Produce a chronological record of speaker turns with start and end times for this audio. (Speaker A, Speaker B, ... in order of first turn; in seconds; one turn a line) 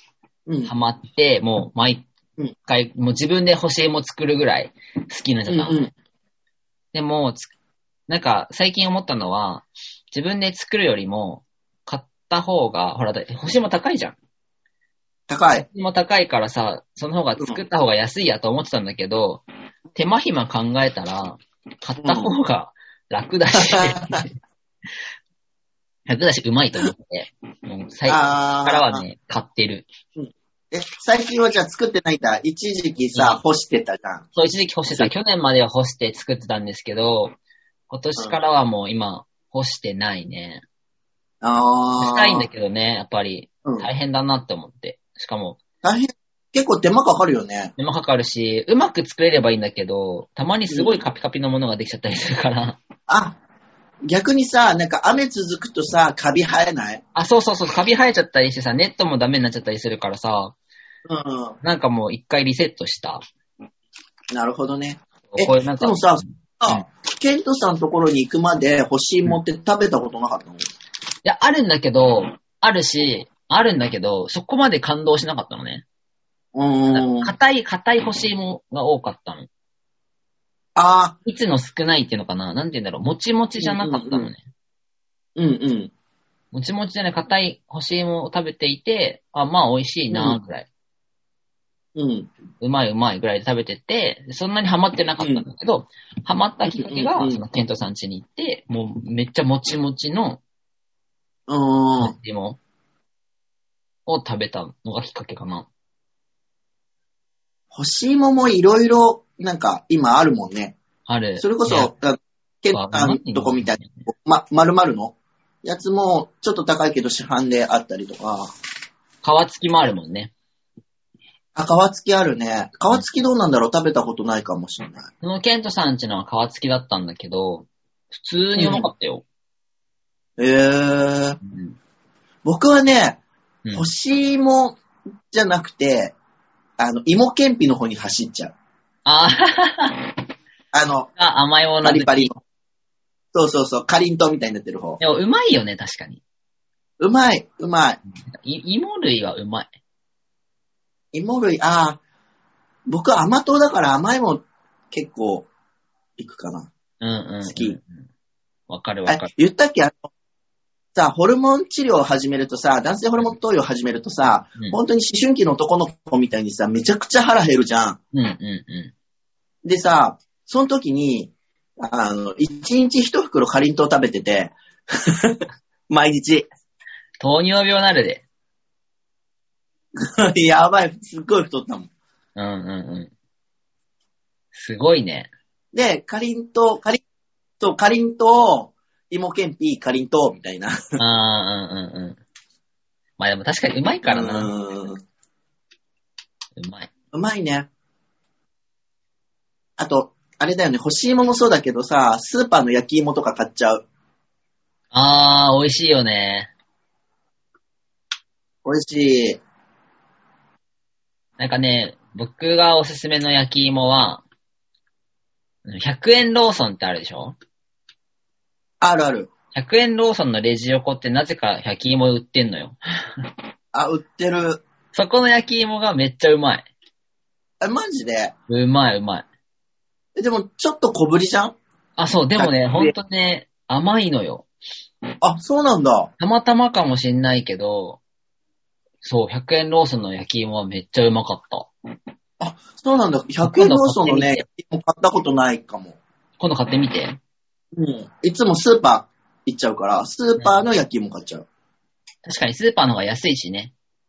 Speaker A: 0.5-0.7
Speaker B: 0.7-2.1
Speaker B: 2.7-5.9
Speaker A: 5.5-5.9
Speaker B: 6.9-7.5
Speaker B: 8.1-14.2
Speaker A: 15.3-15.7
Speaker B: 15.6-19.4
Speaker B: 19.9-24.4
Speaker A: 22.0-22.3
Speaker A: 23.6-24.2
Speaker B: 26.1-29.9
Speaker A: 28.1-29.1
Speaker A: 30.2-34.3
Speaker B: 33.1-33.4
Speaker B: 34.4-37.4
Speaker B: 37.9-40.6
Speaker A: 41.4-42.5
Speaker B: 42.0-45.6
Speaker A: 45.8-47.7
Speaker B: 47.8-52.8
Speaker A: 50.7-51.0
Speaker A: 53.1-53.4
Speaker A: 54.1-57.0
Speaker B: 57.1-60.6
Speaker A: 61.1-61.6
Speaker B: 61.6-63.2
Speaker A: 64.3-70.7
Speaker B: 65.3-66.8
Speaker B: 71.2-75.8
Speaker A: 76.5-77.3
Speaker B: 76.9-79.5
Speaker A: 80.8-81.2
Speaker B: 81.2-84.4
Speaker A: 83.6-84.3
Speaker A: 85.4-85.9
Speaker B: 86.5-90.7
Speaker A: 90.1-90.4
Speaker A: 92.0-92.3
Speaker B: 92.6-100.4
Speaker A: 95.2-95.5
Speaker A: 96.7-97.4
Speaker A: 101.5-102.1
Speaker B: 102.0-102.6
Speaker B: 104.1-105.7
Speaker A: 107.7-110.8
Speaker B: 111.1-111.9
Speaker A: 111.4-118.5
Speaker B: 112.7-114.1
Speaker B: 119.2-120.3
Speaker A: 121.6-125.1
Speaker B: 125.2-129.2
Speaker A: 128.6-128.9
Speaker A: 130.4-131.4
Speaker B: 131.4-131.8
Speaker A: 132.4-133.2
Speaker A: 133.7-134.8
Speaker A: 135.3-136.1
Speaker A: 136.8-138.5
Speaker B: 139.1-140.1
Speaker A: 140.7-141.1
Speaker B: 141.2-142.3
Speaker A: 141.8-142.4
Speaker A: 143.3-145.0
Speaker B: 145.0-146.2
Speaker A: 147.0-148.0
Speaker B: 148.3-149.7
Speaker A: 151.1-152.0
Speaker A: 152.9-155.5
Speaker A: 156.2-156.7
Speaker B: 157.0-158.0
Speaker A: 157.5-157.8
Speaker B: 158.7-159.3
Speaker A: 159.1-160.1
Speaker A: 160.9-168.0
Speaker B: 168.1-168.9
Speaker A: 169.7-176.5
Speaker B: 177.2-178.2
Speaker A: 180.1-181.9
Speaker B: 182.4-183.1
Speaker B: 184.5-185.3
Speaker A: 185.7-187.0
Speaker A: 187.6-190.8
Speaker B: 191.0-192.2
Speaker B: 193.2-194.5
Speaker A: 194.1-195.0
Speaker B: 196.6-196.9
Speaker A: 197.1-197.7
Speaker A: 199.8-203.8
Speaker B: 204.9-206.5
Speaker A: 208.7-209.4
Speaker B: 211.4-214.2
Speaker B: 215.7-217.4
Speaker A: 218.8-219.3
Speaker B: 219.5-222.8
Speaker A: 223.7-224.6
Speaker B: 224.9-226.7
Speaker A: 227.6-228.3
Speaker B: 228.5-229.3
Speaker A: 230.2-231.6
Speaker B: 232.0-234.5
Speaker A: 232.4-232.9
Speaker A: 235.2-236.1
Speaker B: 236.2-238.0
Speaker B: 239.0-241.7
Speaker A: 242.4-246.0
Speaker B: 243.4-244.4
Speaker B: 246.4-247.2
Speaker A: 247.7-251.4
Speaker B: 252.2-253.7